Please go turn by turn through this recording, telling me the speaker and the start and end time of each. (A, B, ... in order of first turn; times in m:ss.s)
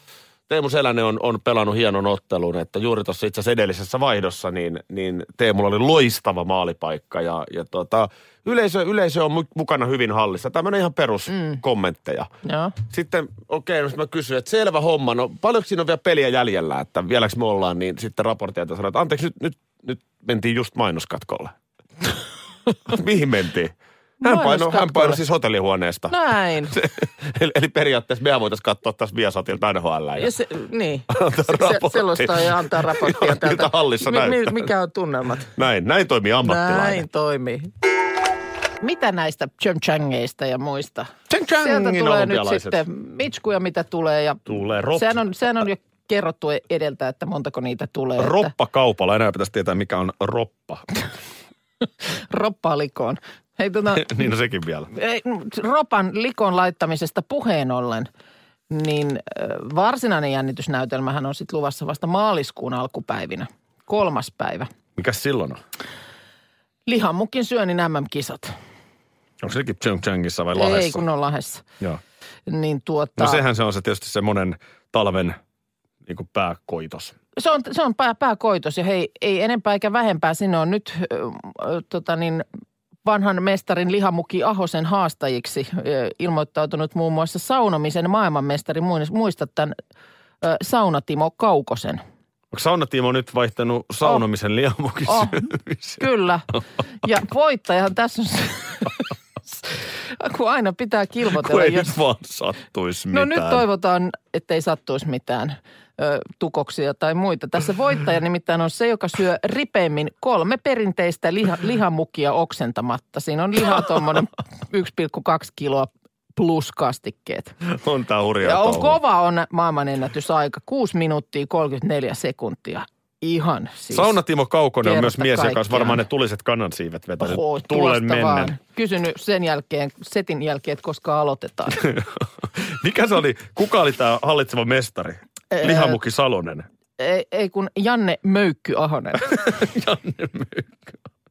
0:00.5-0:12.3 A
0:12.4-0:12.8 B
0:12.9-0:21.5 A
0:22.9-0:26.2 A
0:24.2-0:25.2 B
0:26.1-0:26.8 B
0:26.7-0:30.3 A
0:30.2-0:35.5 B
0:31.1-0:34.7 A
0:35.6-0:37.0 A
0:36.4-0:37.7 B
0:38.8-0:48.5 B
0:41.3-0:42.8 A
0:44.5-0:45.2 A
0:48.2-0:50.9 A
0:52.1-0:54.3 B
0:53.9-0:54.9 A
0:54.9-0:58.1 B
0:58.7-1:04.7 B
1:05.0-1:05.6 A
1:06.9-1:08.5 B
1:09.4-1:11.0 A
1:10.6-1:11.6 B
1:12.5-1:13.4 B
1:13.2-1:15.4 A
1:16.1-1:17.1 A
1:17.4-1:22.4 B
1:23.0-1:29.8 B
1:30.4-1:32.0 B
1:32.5-1:36.1 A
1:35.1-1:39.0 B
1:39.7-1:42.0 B
1:41.3-1:43.6 A
1:43.1-1:57.5 B
1:57.7-1:59.0 A
1:58.4-2:04.2 B
2:03.9-2:08.6 A
2:04.8-2:06.0 B
2:07.2-2:11.8 B
2:11.8-2:16.6 A
2:15.5-2:16.0 B
2:17.0-2:19.2 B
2:19.2-2:21.0 A